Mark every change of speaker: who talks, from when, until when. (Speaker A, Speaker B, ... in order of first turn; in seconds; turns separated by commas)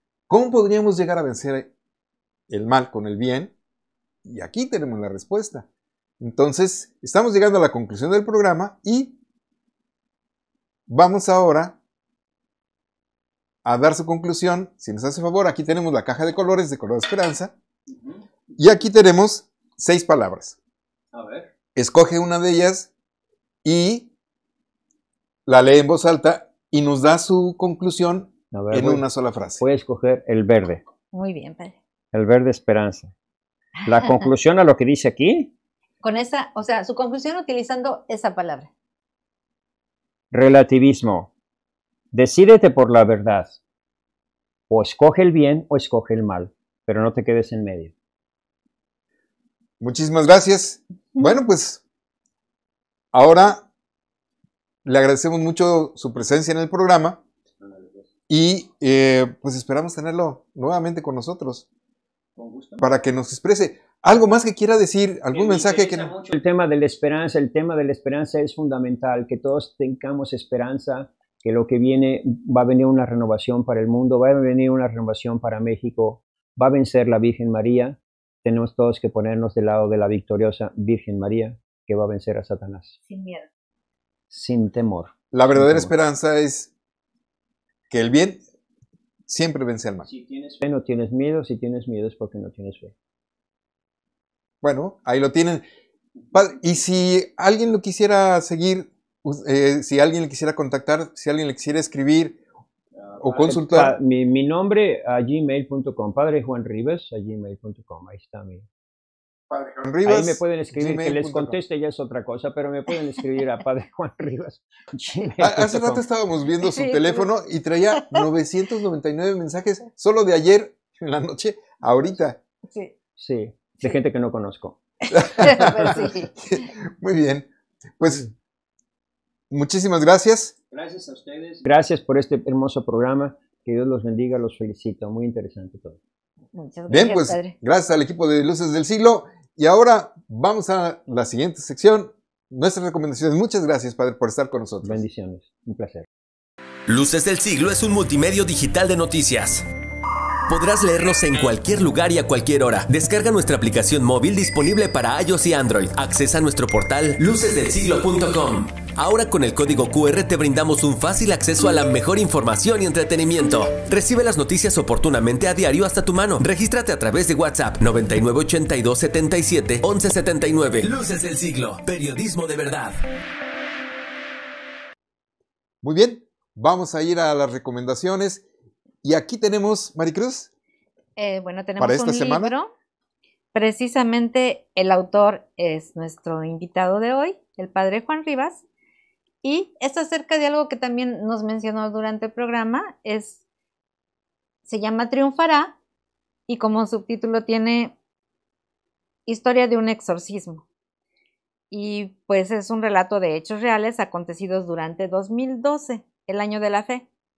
Speaker A: 0.3-1.7, Speaker A: 2.5-3.5, Speaker A: 4.2-5.7, Speaker A: 6.2-9.1, Speaker A: 10.9-11.8, Speaker A: 13.6-17.5, Speaker B: 17.9-18.2, Speaker A: 18.6-20.6, Speaker B: 21.1-21.5, Speaker A: 21.7-22.9, Speaker A: 23.6-24.1, Speaker A: 25.4-29.6, Speaker B: 28.5-29.1, Speaker B: 29.6-30.8, Speaker C: 31.1-31.7, Speaker B: 32.1-33.1, Speaker B: 33.8-35.5, Speaker C: 36.0-38.7, Speaker B: 40.3-41.3, Speaker B: 42.1-43.6, Speaker B: 44.7-47.9, Speaker A: 49.8-51.8, Speaker A: 53.1-53.6, Speaker A: 54.8-57.2, Speaker B: 57.6-58.1, Speaker A: 58.3-61.6, Speaker B: 62.4-62.9, Speaker A: 62.8-66.1, Speaker B: 65.3-83.0, Speaker C: 83.1-83.5, Speaker B: 84.3-85.9, Speaker A: 85.3-86.7, Speaker A: 87.9-88.4, Speaker A: 89.3-90.1, Speaker B: 90.0-92.9, Speaker A: 94.6-95.6, Speaker A: 96.3-102.4, Speaker A: 103.2-104.0, Speaker B: 103.2-108.7, Speaker A: 109.5-111.5, Speaker B: 110.0-116.0, Speaker A: 115.4-122.4, Speaker C: 116.7-117.3, Speaker C: 122.7-122.9, Speaker B: 123.2-124.8, Speaker A: 125.1-128.3, Speaker C: 125.2-126.3, Speaker A: 129.5-130.5, Speaker B: 130.7-136.0, Speaker C: 136.5-137.5, Speaker A: 136.9-145.0, Speaker B: 144.8-146.1, Speaker D: 146.9-149.6, Speaker D: 150.5-172.9, Speaker A: 175.8-178.4, Speaker A: 179.0-180.5, Speaker C: 181.2-182.7, Speaker A: 181.8-182.5, Speaker C: 183.5-188.6, Speaker C: 189.4-193.4, Speaker C: 194.6-195.7, Speaker C: 196.5-197.9, Speaker C: 199.2-200.6, Speaker C: 201.7-207.1